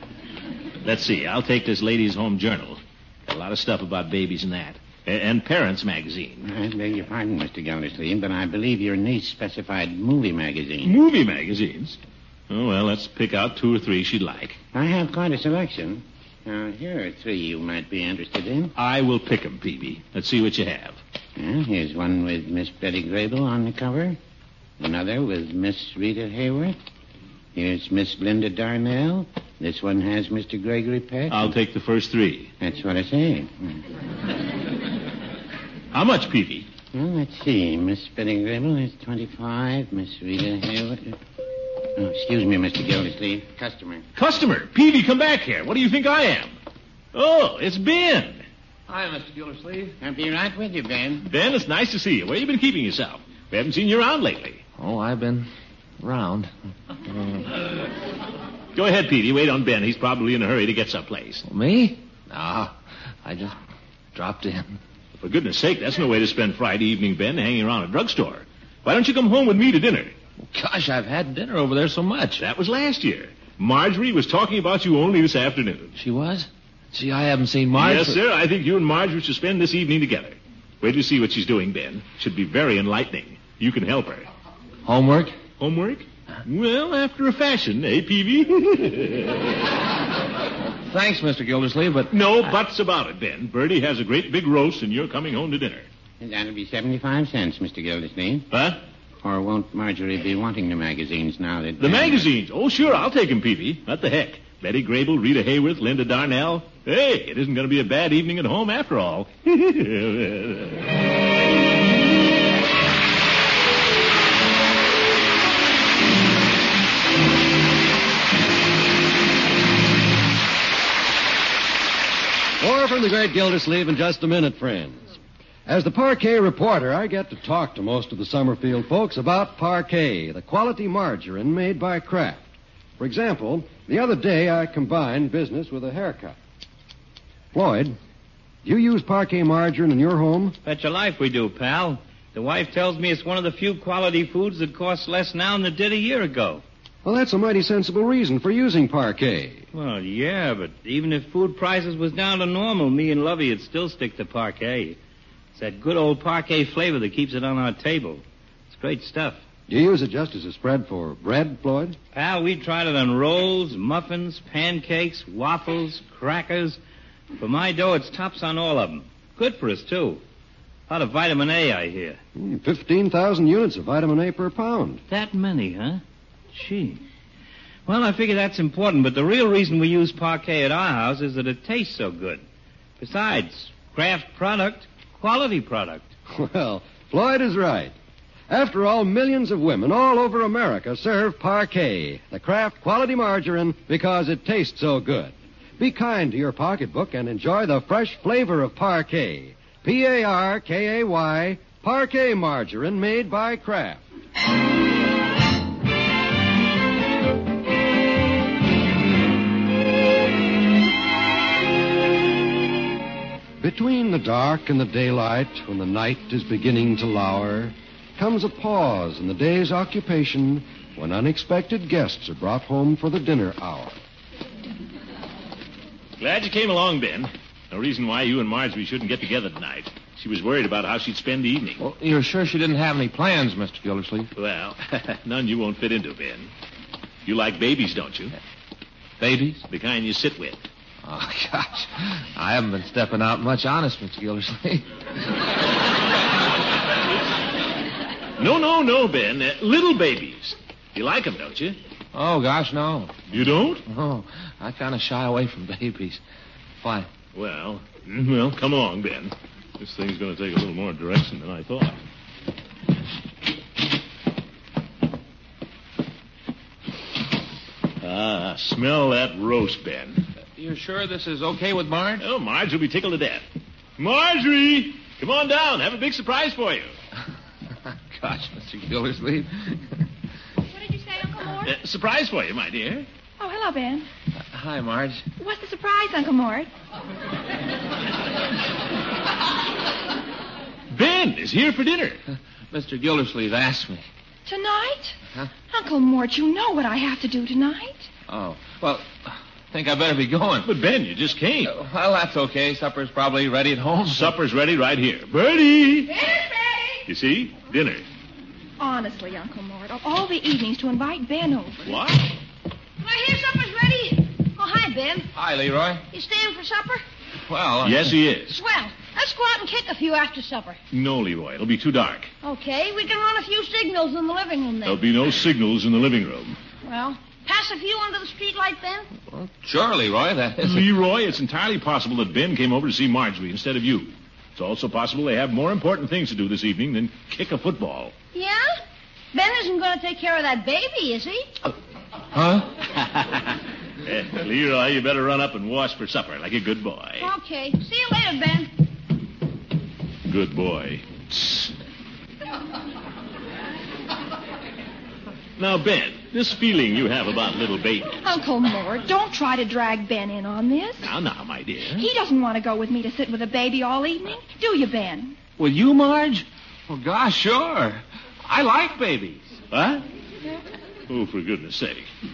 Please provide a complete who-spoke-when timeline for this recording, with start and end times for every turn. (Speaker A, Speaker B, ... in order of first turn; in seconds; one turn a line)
Speaker A: 0.8-6.5
Speaker B: 6.5-11.0
Speaker A: 10.8-12.0
Speaker A: 12.5-14.6
Speaker B: 14.7-18.7
Speaker A: 18.8-21.0
Speaker B: 21.4-24.2
Speaker B: 24.8-26.8
Speaker B: 27.6-31.6
Speaker A: 31.3-32.5
Speaker B: 32.6-33.8
Speaker A: 35.9-36.7
Speaker B: 36.9-41.2
Speaker B: 42.0-44.0
Speaker A: 44.2-46.5
Speaker A: 47.1-48.4
Speaker C: 48.9-50.0
Speaker B: 50.0-51.3
Speaker A: 51.3-54.6
Speaker C: 54.8-55.5
Speaker C: 56.0-56.5
Speaker C: 57.1-57.4
Speaker A: 58.8-61.5
Speaker C: 61.5-63.6
Speaker C: 64.1-64.8
Speaker A: 65.2-70.2
Speaker C: 70.4-72.4
Speaker A: 72.4-75.9
Speaker C: 76.0-78.2
Speaker A: 77.8-84.3
Speaker C: 84.8-85.3
Speaker A: 85.6-89.6
Speaker C: 90.8-92.1
Speaker A: 92.1-95.9
Speaker B: 96.2-98.5
Speaker A: 98.5-98.8
Speaker B: 99.2-102.3
Speaker A: 101.8-110.8
Speaker D: 122.6-125.1
Speaker D: 125.7-136.4
Speaker D: 137.5-138.0
Speaker D: 138.6-140.6
Speaker E: 140.6-146.6
Speaker D: 147.0-149.7
Speaker E: 149.7-155.0
Speaker E: 155.6-159.4
Speaker D: 159.7-162.0
Speaker E: 162.1-166.8
Speaker E: 167.4-170.2
Speaker E: 170.9-172.2
Speaker D: 172.3-175.0
Speaker E: 175.1-177.0
Speaker E: 177.9-182.4
Speaker E: 183.0-186.1
Speaker D: 186.3-187.9
Speaker D: 188.5-204.0
Speaker D: 213.6-223.9
Speaker A: 226.2-231.8
Speaker C: 231.8-234.3
Speaker A: 234.4-236.5
Speaker A: 237.2-238.4
Speaker C: 239.2-239.6
Speaker A: 239.7-240.6
Speaker C: 241.1-244.9
Speaker A: 248.4-251.8
Speaker C: 252.1-253.3
Speaker A: 253.3-253.8
Speaker C: 253.9-256.2
Speaker C: 256.8-257.1
Speaker A: 257.3-262.0
Speaker A: 268.0-270.2
Speaker C: 270.6-272.2
Speaker A: 272.2-273.4
Speaker A: 274.0-276.9
Speaker C: 277.9-279.8
Speaker F: 280.7-281.7
Speaker A: 281.6-283.1
Speaker F: 283.4-284.1
Speaker C: 284.5-285.2
Speaker F: 285.4-286.7
Speaker A: 290.9-292.2
Speaker C: 292.7-294.1
Speaker F: 294.5-295.2
Speaker F: 295.7-298.1
Speaker C: 298.3-300.7
Speaker A: 300.6-301.8
Speaker C: 301.7-304.3
Speaker A: 304.1-306.1
Speaker G: 306.2-306.9
Speaker A: 307.1-308.0
Speaker F: 308.8-311.8
Speaker A: 311.9-312.3
Speaker G: 313.0-315.3
Speaker C: 315.4-316.0
Speaker G: 316.1-317.0
Speaker C: 317.5-318.1
Speaker A: 317.8-318.6
Speaker G: 318.5-320.8
Speaker A: 320.9-322.3
Speaker G: 322.4-325.0
Speaker A: 324.9-326.6
Speaker G: 326.9-329.1
Speaker C: 329.3-330.9
Speaker A: 330.6-338.1
Speaker G: 338.3-338.7
Speaker G: 339.3-341.5
Speaker C: 342.3-342.7
Speaker A: 342.9-347.3
Speaker G: 347.2-348.7
Speaker A: 350.3-351.7
Speaker A: 355.6-358.2
Speaker F: 358.2-361.1
Speaker A: 361.0-362.1
Speaker F: 361.9-365.4
Speaker C: 365.6-369.5
Speaker A: 369.7-370.0
Speaker A: 371.1-372.1